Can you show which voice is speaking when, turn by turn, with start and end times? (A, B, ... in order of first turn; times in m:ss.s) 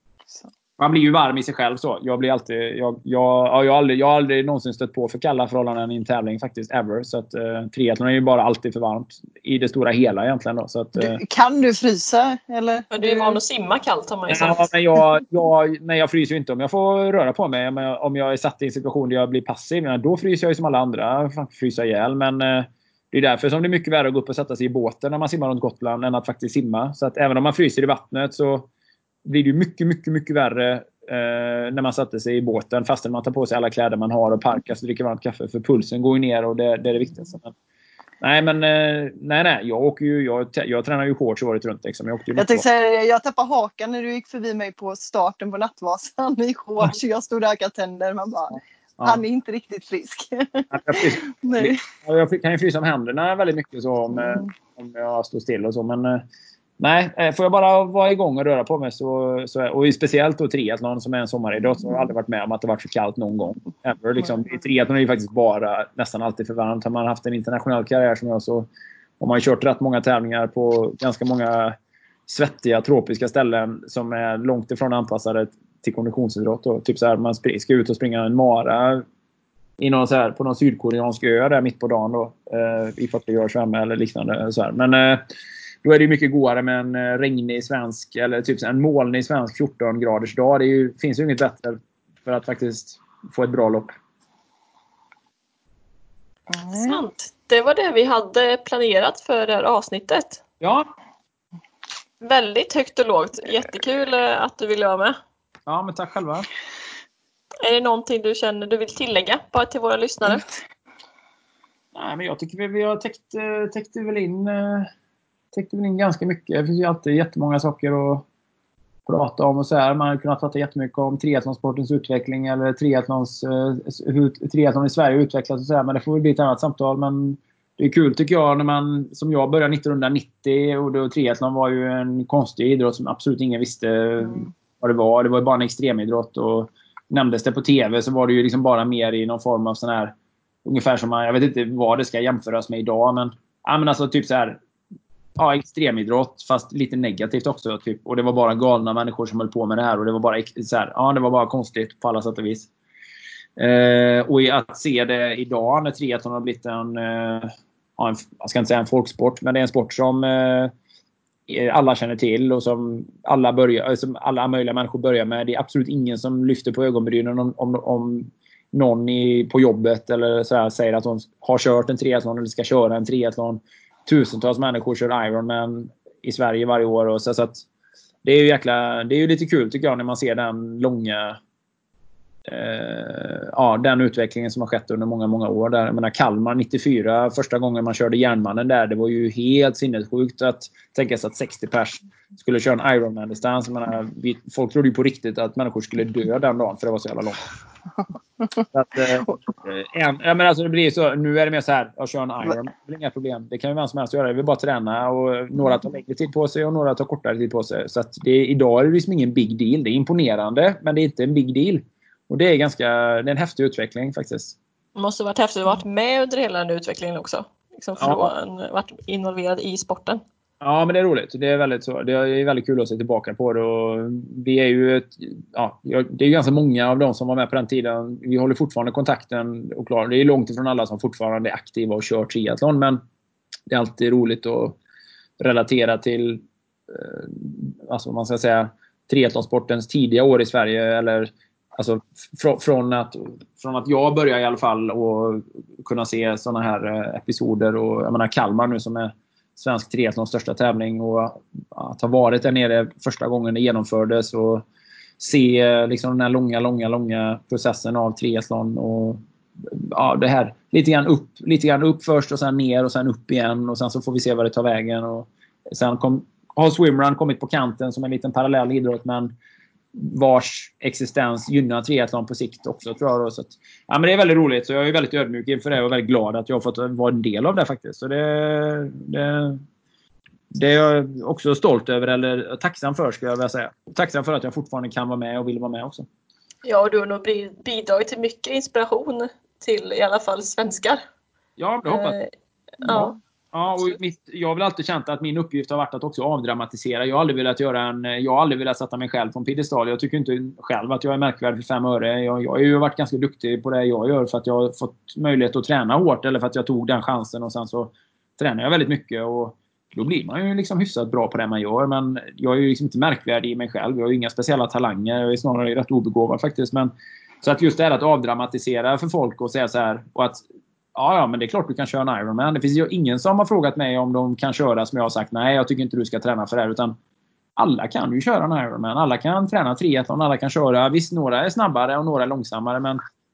0:00.8-0:11.2 A
0:11.0-0:13.4 B
0:12.9-0:14.7 C
0:14.3-0:28.7 A
0:29.2-0:37.6 A
0:38.2-0:42.6 A
0:42.4-0:51.8 B
0:50.7-0:56.2 A
0:56.8-1:08.7 A
1:09.2-1:11.8 A
1:12.3-1:19.0 A
1:19.8-1:25.2 A
1:25.8-1:33.9 A
1:36.5-1:37.1 B
1:36.9-1:40.4 C
1:40.6-1:40.9 A
1:42.2-1:45.2 C
1:45.7-1:46.5 A
1:47.6-1:50.5 C
1:51.9-1:54.9 A
1:55.5-1:58.2 A
1:59.1-2:20.1 A
2:20.6-2:24.6 A
2:25.4-2:32.7 A
2:33.6-2:40.7 A
2:41.5-2:57.7 A
2:58.2-3:01.4 A
3:02.5-3:17.4 A
3:18.7-3:34.6 A
3:35.0-3:40.2 C
3:38.0-3:38.3 A
3:40.6-3:53.0 A
3:53.7-3:54.8 A
3:55.4-4:14.6 A
4:15.2-4:29.3 A
4:29.9-4:39.6 A
4:40.5-4:46.1 A
4:46.6-4:51.0 C
4:51.6-4:52.2 A
4:51.9-4:52.3 C
4:52.8-4:53.2 C
4:52.8-4:53.1 B
4:53.5-5:20.4 A
5:21.0-5:27.0 A
5:27.6-5:33.0 A